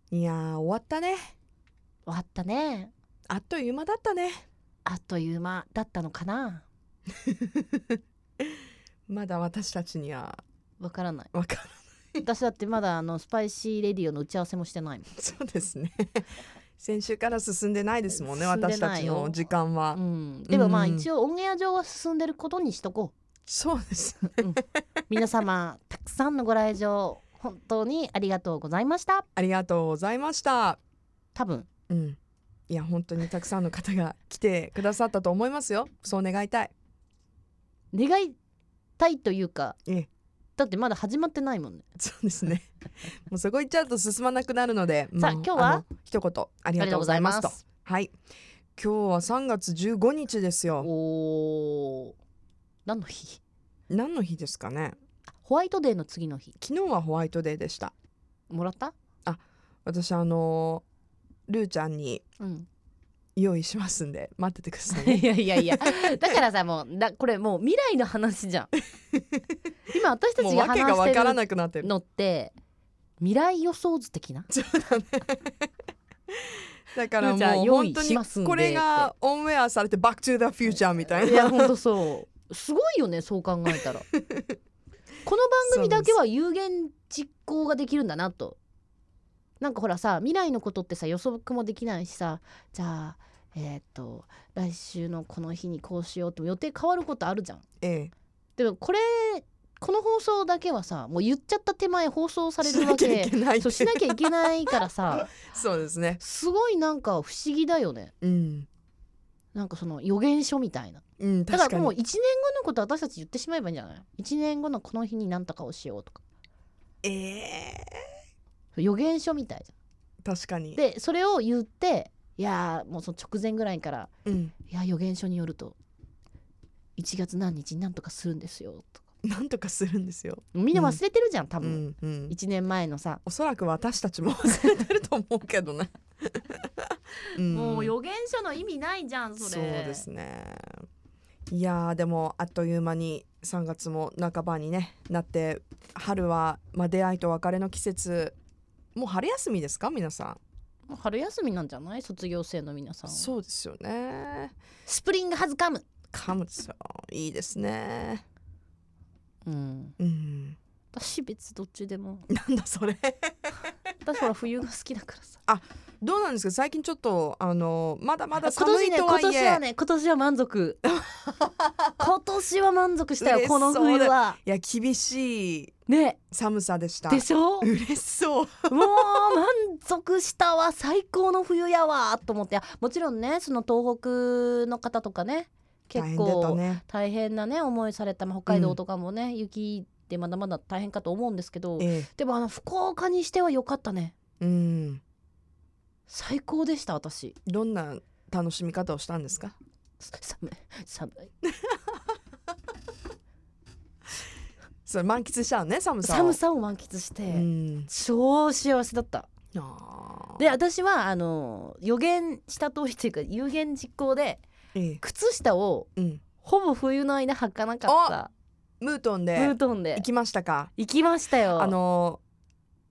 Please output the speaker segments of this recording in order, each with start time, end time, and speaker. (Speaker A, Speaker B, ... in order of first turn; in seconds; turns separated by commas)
Speaker A: 0.1-1.3, Speaker B: 2.1-2.9, Speaker A: 3.3-4.5, Speaker B: 4.9-6.7, Speaker A: 7.2-7.8, Speaker A: 9.1-10.4, Speaker B: 10.8-11.3, Speaker A: 11.3-12.2, Speaker B: 12.2-15.2, Speaker A: 15.2-16.2, Speaker A: 16.8-21.1, Speaker B: 18.1-19.4, Speaker B: 19.9-23.1, Speaker A: 23.5-24.8, Speaker B: 24.4-29.3, Speaker A: 29.4-30.8, Speaker B: 31.4-31.7, Speaker A: 31.9-32.2, Speaker A: 32.7-36.7, Speaker B: 37.9-38.4, Speaker B: 39.0-39.8, Speaker B: 40.6-41.9, Speaker A: 42.0-42.7, Speaker A: 43.3-48.1, Speaker B: 45.2-45.9, Speaker B: 46.8-47.6, Speaker A: 48.8-50.9, Speaker B: 50.8-52.2, Speaker B: 52.9-53.4, Speaker A: 53.9-55.0, Speaker B: 55.3-56.6, Speaker A: 56.6-57.9, Speaker B: 58.5-59.0, Speaker A: 59.2-60.8, Speaker A: 61.5-62.2, Speaker B: 62.4-62.7, Speaker A: 63.4-66.2, Speaker B: 64.9-68.7, Speaker A: 69.2-69.4, Speaker B: 69.9-72.5, Speaker A: 70.4-71.9, Speaker B: 73.2-74.5, Speaker A: 74.5-75.6, Speaker A: 76.4-81.7, Speaker B: 77.2-79.1, Speaker B: 81.2-84.0, Speaker A: 84.2-84.5, Speaker B: 85.2-88.6, Speaker A: 85.7-86.1, Speaker B: 89.6-97.7, Speaker A: 97.8-98.1, Speaker B: 98.6-105.3, Speaker A: 102.6-104.5, Speaker A: 105.3-106.2, Speaker B: 106.2-108.1, Speaker A: 108.2-108.7, Speaker B: 109.5-116.2, Speaker A: 111.2-112.0, Speaker A: 117.0-118.0, Speaker B: 118.8-119.7, Speaker A: 120.2-120.8, Speaker B: 120.8-125.8, Speaker A: 124.3-124.5, Speaker B: 127.0-129.0, Speaker A: 129.2-131.0, Speaker B: 130.5-133.2, Speaker A: 131.6-132.4, Speaker A: 133.2-137.9, Speaker B: 137.4-140.1, Speaker A: 139.4-140.7, Speaker A: 141.5-148.4, Speaker A: 149.0-150.4, Speaker B: 150.9-153.3, Speaker A: 153.1-154.6, Speaker B: 154.9-155.9, Speaker A: 156.1-158.2, Speaker B: 159.4-160.0, Speaker A: 160.0-160.6, Speaker B: 160.9-162.3, Speaker A: 162.3-163.7, Speaker B: 164.0-165.4, Speaker A: 165.5-169.6, Speaker B: 168.4-170.8, Speaker A: 170.9-171.5, Speaker B: 172.0-174.4, Speaker A: 173.2-175.7, Speaker B: 175.9-176.3, Speaker A: 176.3-179.0, Speaker B: 177.1-177.7, Speaker B: 178.7-194.2, Speaker A: 185.9-186.8, Speaker A: 188.5-188.8, Speaker A: 191.8-192.1, Speaker A: 194.4-195.0, Speaker B: 196.1-197.4, Speaker A: 197.5-199.6, Speaker B: 200.0-201.3, Speaker A: 201.4-201.8, Speaker A: 204.9-206.4, Speaker B: 206.0-209.3, Speaker A: 207.3-207.9, Speaker A: 209.6-210.6, Speaker B: 210.4-214.4, Speaker A: 214.8-215.0, Speaker B: 215.0-218.3, Speaker A: 216.0-216.2, Speaker A: 217.9-218.2, Speaker A: 218.8-220.7, Speaker B: 219.3-220.1, Speaker B: 220.8-221.8, Speaker A: 221.6-222.2